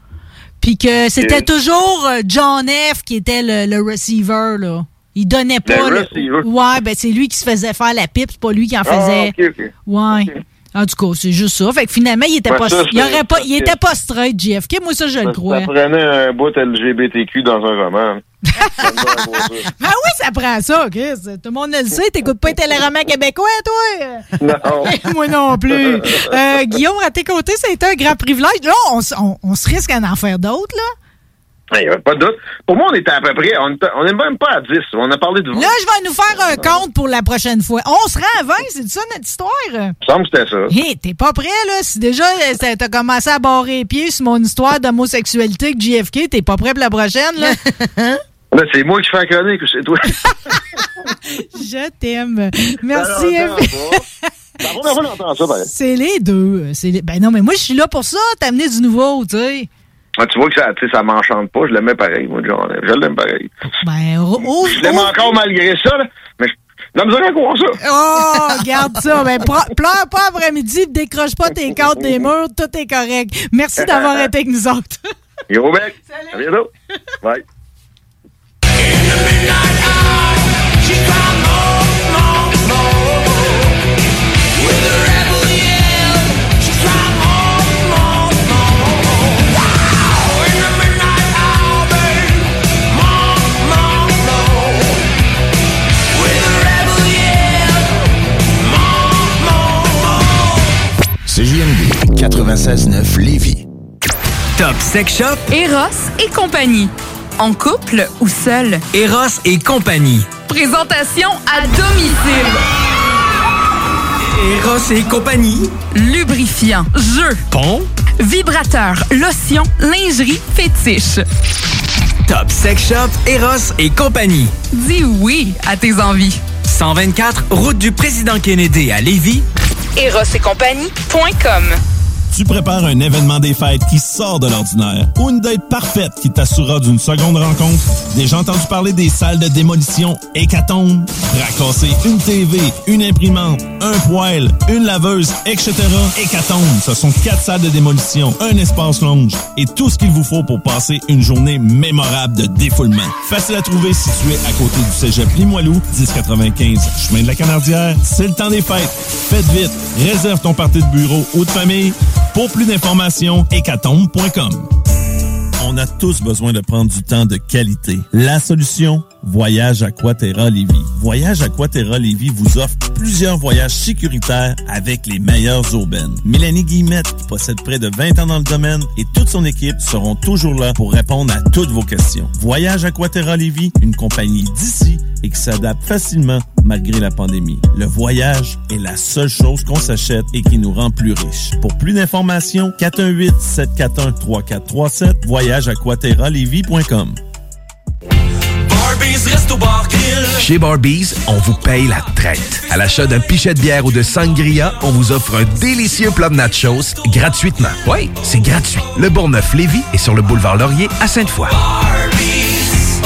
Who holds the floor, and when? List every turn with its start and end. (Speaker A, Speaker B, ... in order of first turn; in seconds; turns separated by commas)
Speaker A: 0.6-9.3, Speaker B: 1.2-1.4, Speaker B: 5.7-6.5, Speaker B: 8.8-9.7, Speaker A: 9.9-15.7, Speaker B: 12.5-13.8, Speaker B: 15.2-19.7, Speaker A: 18.6-19.1, Speaker A: 19.8-24.3, Speaker B: 24.4-25.0, Speaker A: 24.8-30.9, Speaker B: 25.9-26.3, Speaker B: 31.7-35.7, Speaker A: 35.5-39.9, Speaker B: 40.0-40.7, Speaker A: 40.7-47.5, Speaker B: 48.5-50.1, Speaker A: 50.2-50.5, Speaker A: 51.5-53.9, Speaker B: 52.9-54.0, Speaker B: 54.6-55.7, Speaker A: 55.6-59.7, Speaker B: 60.2-63.5, Speaker A: 63.8-65.3, Speaker B: 64.6-67.8, Speaker A: 67.8-75.0, Speaker B: 73.8-74.3, Speaker B: 75.5-76.7, Speaker C: 104.6-105.5, Speaker D: 105.5-108.8, Speaker C: 108.9-110.3, Speaker D: 110.4-112.6, Speaker C: 114.4-115.7, Speaker D: 115.9-117.4, Speaker C: 117.5-117.8, Speaker D: 118.2-121.2, Speaker C: 122.3-124.5, Speaker D: 124.7-126.4, Speaker C: 126.7-129.4, Speaker D: 129.9-131.8, Speaker E: 132.3-164.7, Speaker E: 165.6-197.2, Speaker F: 200.3-211.6